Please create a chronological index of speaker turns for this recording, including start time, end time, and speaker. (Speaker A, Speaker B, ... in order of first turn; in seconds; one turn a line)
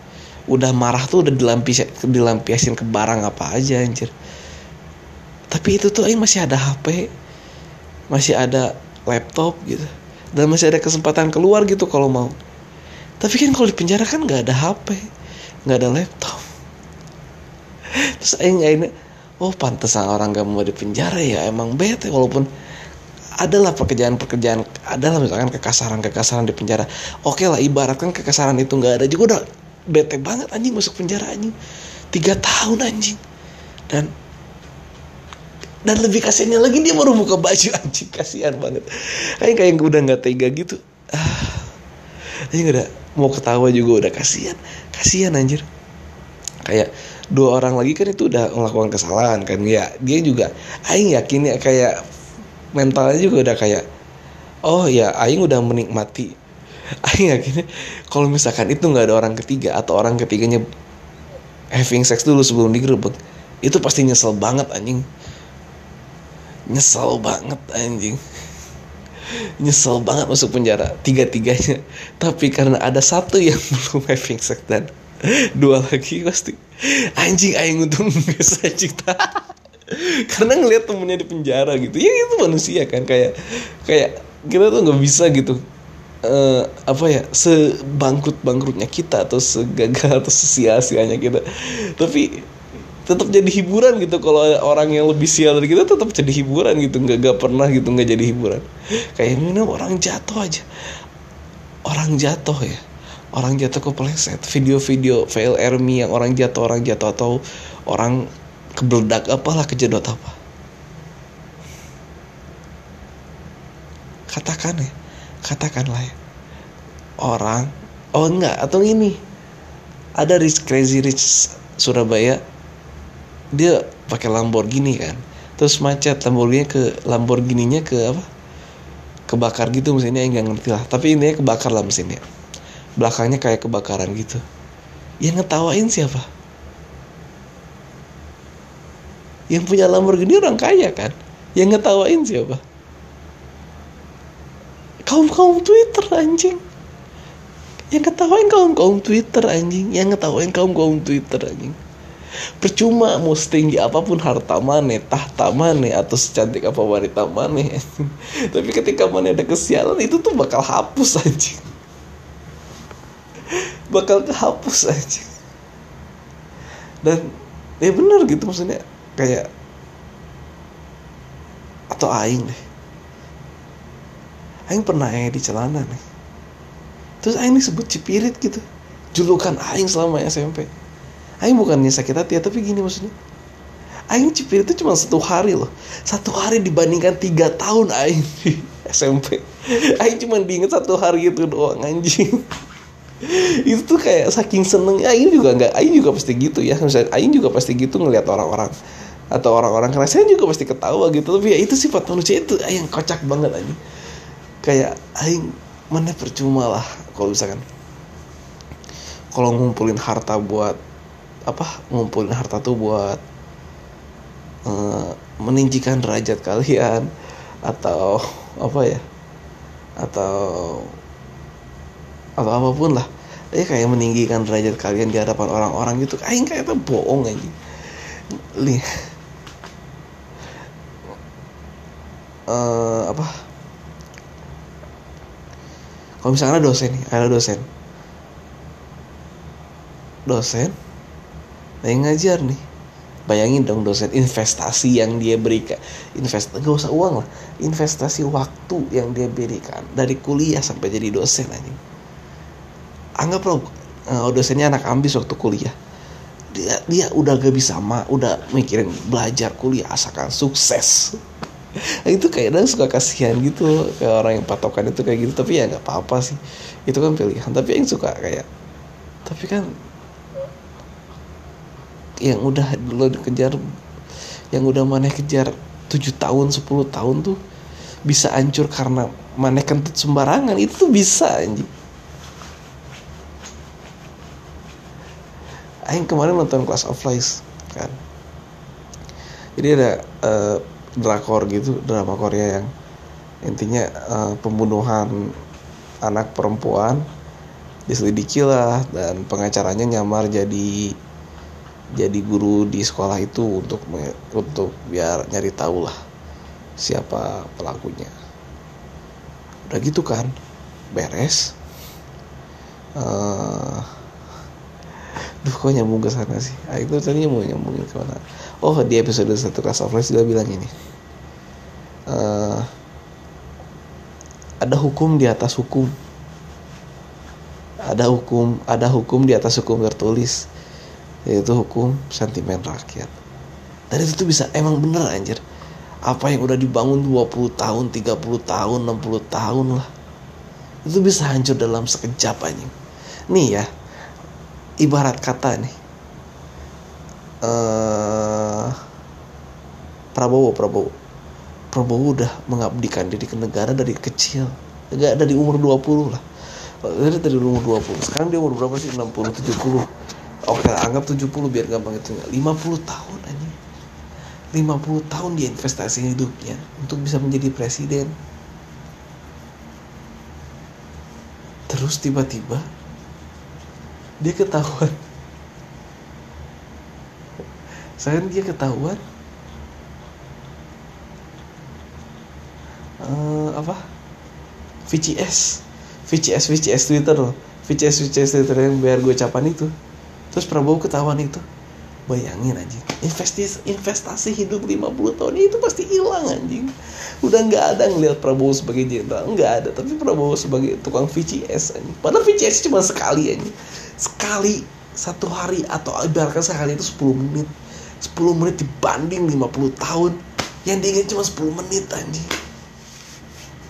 Speaker A: 0.5-4.1
Speaker A: 5.5-7.1
Speaker A: 8.1-12.3
Speaker A: 13.2-15.1
Speaker A: 15.7-16.5
Speaker A: 18.1-22.5
Speaker A: 23.4-31.5
Speaker A: 32.1-33.2
Speaker A: 35.9-41.7
Speaker A: 42.5-45.6
Speaker A: 46.6-52.0
Speaker A: 52.8-53.8
Speaker A: 54.6-56.3
Speaker A: 57.0-60.6
Speaker A: 61.8-65.1
Speaker A: 66.7-68.2
Speaker A: 69.6-74.9
Speaker A: 75.6-76.6
Speaker A: 77.2-83.3
Speaker A: 83.8-85.6
Speaker A: 86.2-91.4
Speaker A: 91.9-92.4
Speaker A: 93.1-100.7
Speaker A: 101.9-102.8
Speaker A: 103.3-108.2
Speaker A: 108.8-110.4
Speaker A: 114.3-114.9
Speaker A: 115.4-116.1
Speaker A: 117.2-119.2
Speaker A: 120.2-122.4
Speaker A: 123.5-128.3
Speaker A: 129.3-132.2
Speaker A: 133.0-134.4
Speaker A: 135.2-136.3
Speaker A: 139.5-142.6
Speaker A: 145.1-146.6
Speaker A: 147.9-151.8
Speaker A: 152.6-161.7
Speaker A: 163.5-165.3
Speaker A: 167.8-169.4
Speaker A: 171.9-172.6
Speaker A: 174.7-176.0
Speaker A: 177.2-180.7
Speaker A: 181.4-183.1
Speaker A: 184.1-192.4
Speaker A: 193.2-198.7
Speaker A: 199.3-203.8
Speaker A: 204.6-207.6
Speaker A: 209.3-210.8
Speaker A: 211.5-213.2
Speaker A: 214.7-217.1
Speaker A: 217.7-219.0
Speaker A: 220.0-220.9
Speaker A: 222.4-227.5
Speaker A: 228.6-228.8
Speaker A: 232.5-233.3
Speaker A: 236.2-237.6
Speaker A: 240.3-240.8
Speaker A: 241.8-242.6
Speaker A: 243.3-251.8
Speaker A: 253.2-255.8
Speaker A: 256.5-261.2
Speaker A: 262.1-268.4
Speaker A: 269.3-269.7
Speaker A: 272.2-273.6
Speaker A: 274.5-277.4
Speaker A: 278.1-281.7
Speaker A: 285.9-288.0
Speaker A: 289.6-292.7
Speaker A: 293.4-295.1
Speaker A: 296.0-297.1
Speaker A: 297.9-300.9
Speaker A: 301.9-305.9
Speaker A: 306.8-308.1
Speaker A: 309.6-310.3
Speaker A: 310.9-311.6
Speaker A: 313.0-313.9
Speaker A: 315.4-320.7
Speaker A: 322.1-322.7
Speaker A: 324.6-325.9
Speaker A: 327.9-330.4
Speaker A: 331.3-333.1
Speaker A: 333.9-335.4
Speaker A: 336.1-339.9
Speaker A: 340.9-342.7
Speaker A: 343.3-343.7
Speaker A: 344.8-345.8
Speaker A: 347.4-348.8
Speaker A: 350.1-350.9
Speaker A: 351.7-356.2
Speaker A: 356.8-359.9
Speaker A: 360.5-363.6
Speaker A: 364.5-368.1
Speaker A: 371.7-372.7
Speaker A: 374.2-374.9
Speaker A: 378.0-379.0
Speaker A: 383.0-383.8
Speaker A: 384.9-389.7
Speaker A: 390.3-391.4
Speaker A: 392.1-412.3